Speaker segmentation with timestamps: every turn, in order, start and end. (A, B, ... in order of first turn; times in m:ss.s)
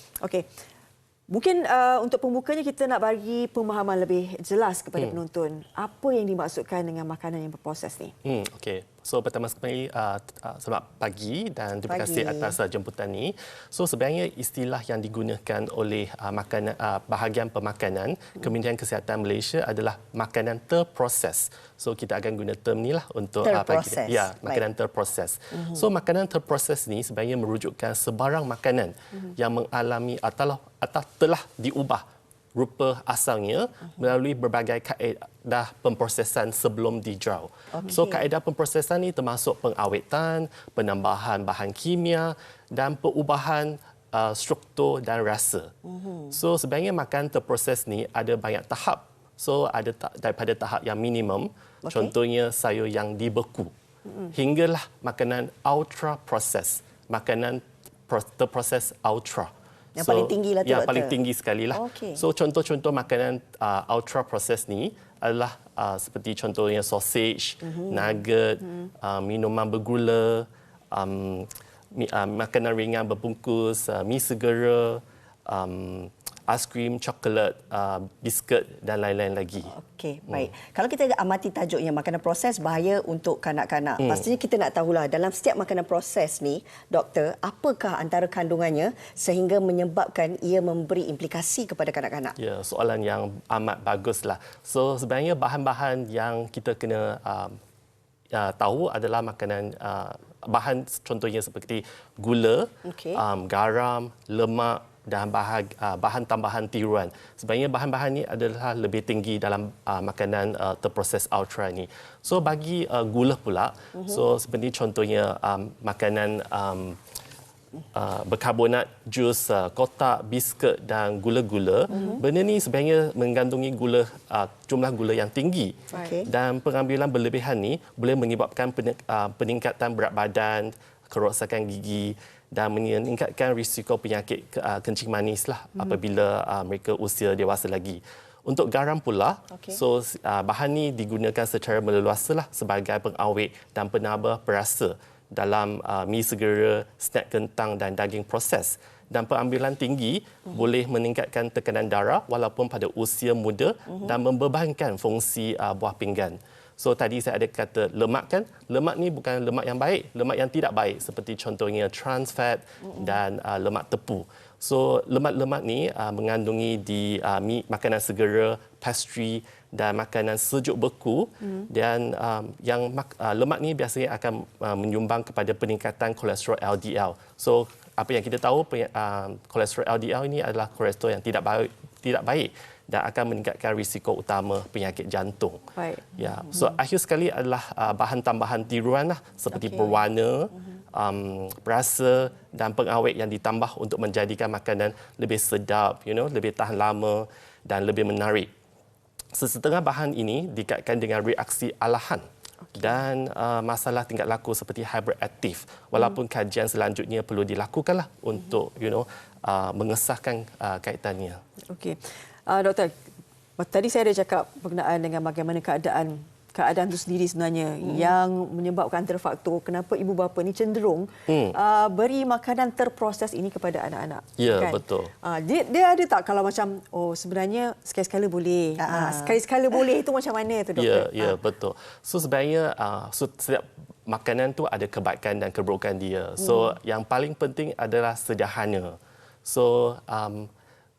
0:00.2-0:00.5 A
0:01.3-0:08.1 A
0:08.2-0:32.0 B
0:11.9-0:12.6 C
0:23.4-0:24.6 C
0:32.6-0:45.7 B
0:37.7-0:38.2 C
0:45.9-0:46.3 C
0:46.3-0:53.7 B
0:51.8-0:52.1 C
0:54.3-1:19.7 B
1:00.0-1:01.2 C
1:01.7-1:02.2 C
1:07.7-1:08.0 C
1:19.7-1:32.4 C
1:32.4-1:37.6 B
1:38.3-1:57.0 B
1:42.8-1:43.2 C
1:57.9-3:05.6 B
2:01.9-2:02.2 C
2:01.9-2:02.2 A
2:06.0-2:06.3 C
2:19.5-2:19.8 C
3:05.8-3:06.1 A
3:06.2-3:18.5 B
3:19.3-3:22.2 B
3:22.7-3:23.0 A
3:22.8-3:31.4 B
3:31.7-3:33.0 A
3:33.6-3:51.4 A
3:41.3-3:41.6 B
3:44.4-3:45.1 B
3:48.8-3:49.4 C
3:50.8-4:00.5 B